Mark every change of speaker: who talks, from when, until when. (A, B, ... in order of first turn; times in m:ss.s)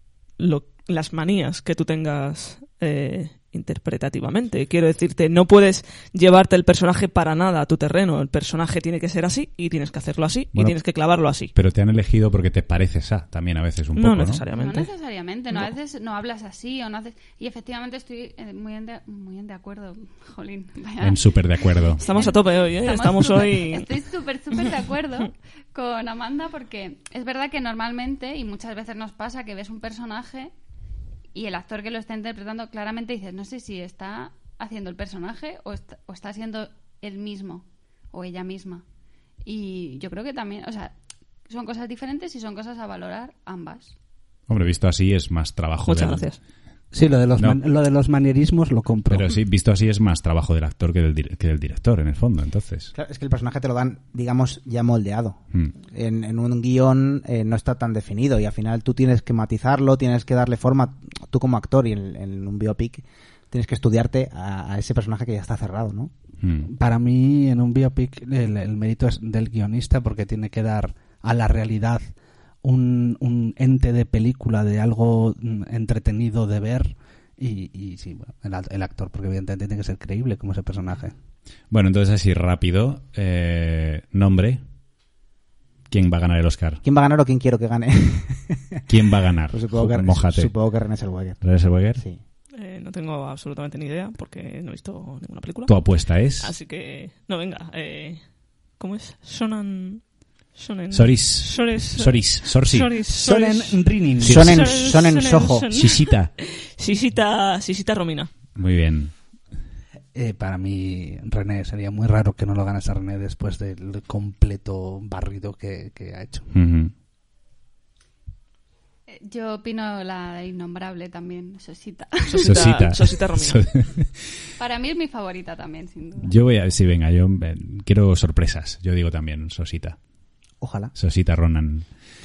0:00.4-0:11.5 A
0:11.5-0:14.4 B
0:13.9-0:14.9 A
0:14.5-0:21.2 C
0:21.0-0:22.0 B
0:21.8-0:30.5 C
0:22.0-0:23.9 A
0:31.3-0:38.8 C
0:39.4-0:40.9 C
0:41.5-0:43.9 C
0:44.5-0:46.3 B
0:45.8-0:46.4 A
0:46.9-0:49.3 D
0:49.1-0:52.9 B
0:52.9-1:06.1 E
1:06.4-1:06.7 B
1:06.6-1:12.0 D
1:12.6-1:21.1 D
1:21.7-1:24.6 B
1:25.9-1:26.8 B
1:26.8-1:28.8 E
1:28.9-1:30.5 B
1:29.5-1:31.4 E
1:31.4-1:32.0 B
1:32.5-1:35.8 A
1:35.6-1:36.5 B
1:36.4-1:38.2 A
1:38.8-1:48.3 A
1:40.9-1:42.9 B
1:43.1-1:44.6 D
1:44.2-1:44.8 B
1:44.2-1:45.7 E
1:45.7-1:46.3 B
1:48.5-1:49.1 B
1:50.1-1:56.5 D
1:56.5-1:56.9 B
1:59.1-2:02.8 C
2:02.3-2:03.6 A
2:02.4-2:04.2 B
2:04.6-2:06.3 C
2:06.2-2:10.0 B
2:10.6-2:10.9 E
2:10.9-2:11.8 B